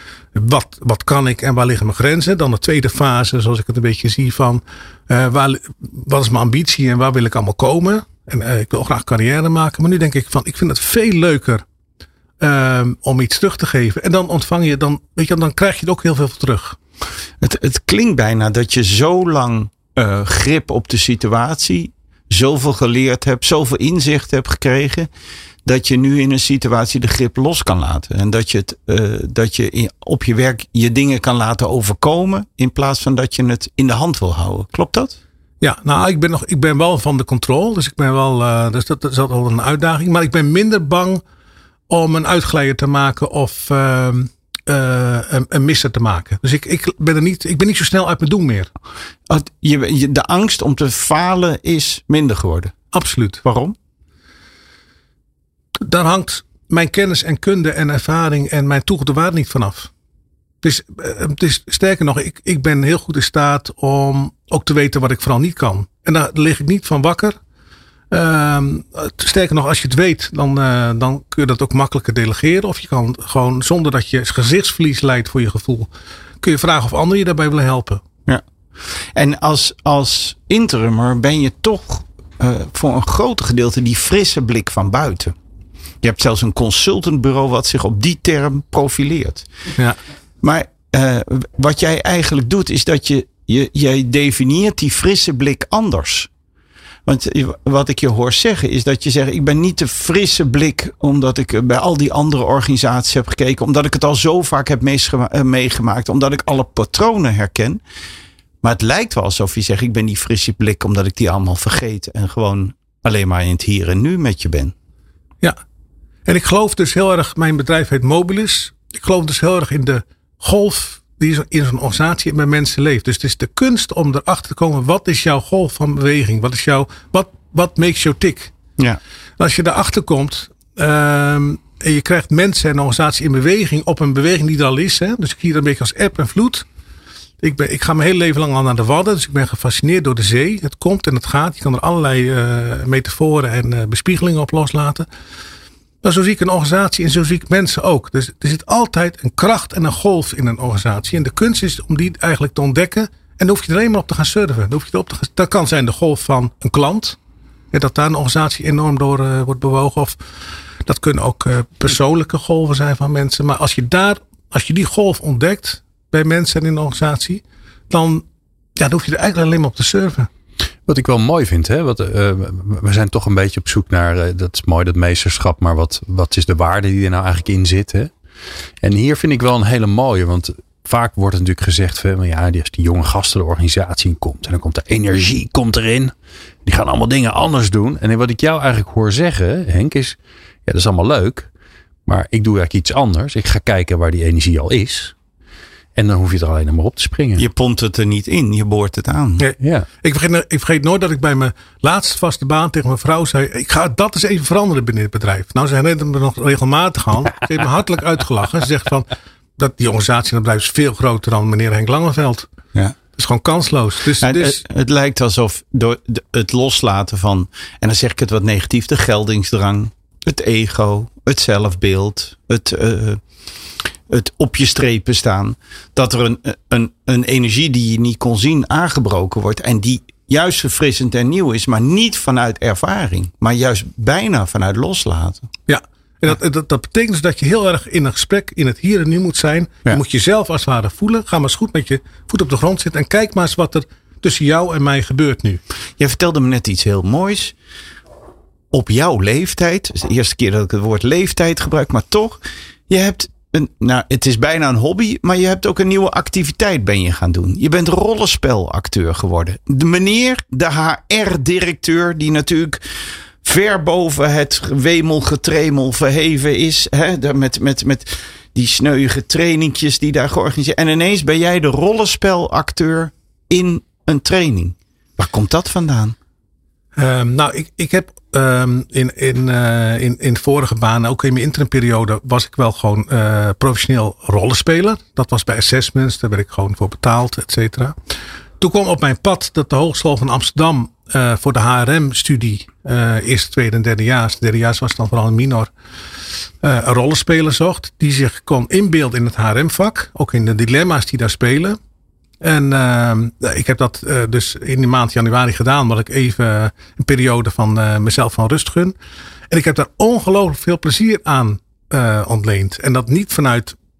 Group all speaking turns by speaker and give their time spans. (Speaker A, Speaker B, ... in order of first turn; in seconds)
Speaker A: 0.3-11.6, 12.4-16.8, 35.6-41.2, 41.9-48.7, 52.9-53.4, 55.8-59.9, 60.6-67.4, 68.1-75.9, 76.4-78.0, 116.2-128.5, 129.4-136.6, 137.4-145.1, 146.0-157.2, 157.7-160.2, 160.8-168.2, 168.8-170.3, 199.4-212.5, 213.2-214.6, 235.7-245.6, 276.9-287.9, 288.6-295.7, 296.6-301.8, 302.4-308.9, 309.5-313.8
Speaker B: 17.4-25.1, 25.6-35.2, 49.3-52.8, 53.4-53.8, 79.1-85.3, 86.0-89.5, 90.4-96.3, 97.0-107.8, 108.6-114.7, 197.3-199.5, 214.2-223.2, 224.1-235.5, 246.0-247.5, 248.7-262.8, 263.4-276.1
Speaker C: 170.9-178.1, 178.8-186.1, 186.6-191.5, 192.1-195.1, 195.9-197.4, 199.6-199.8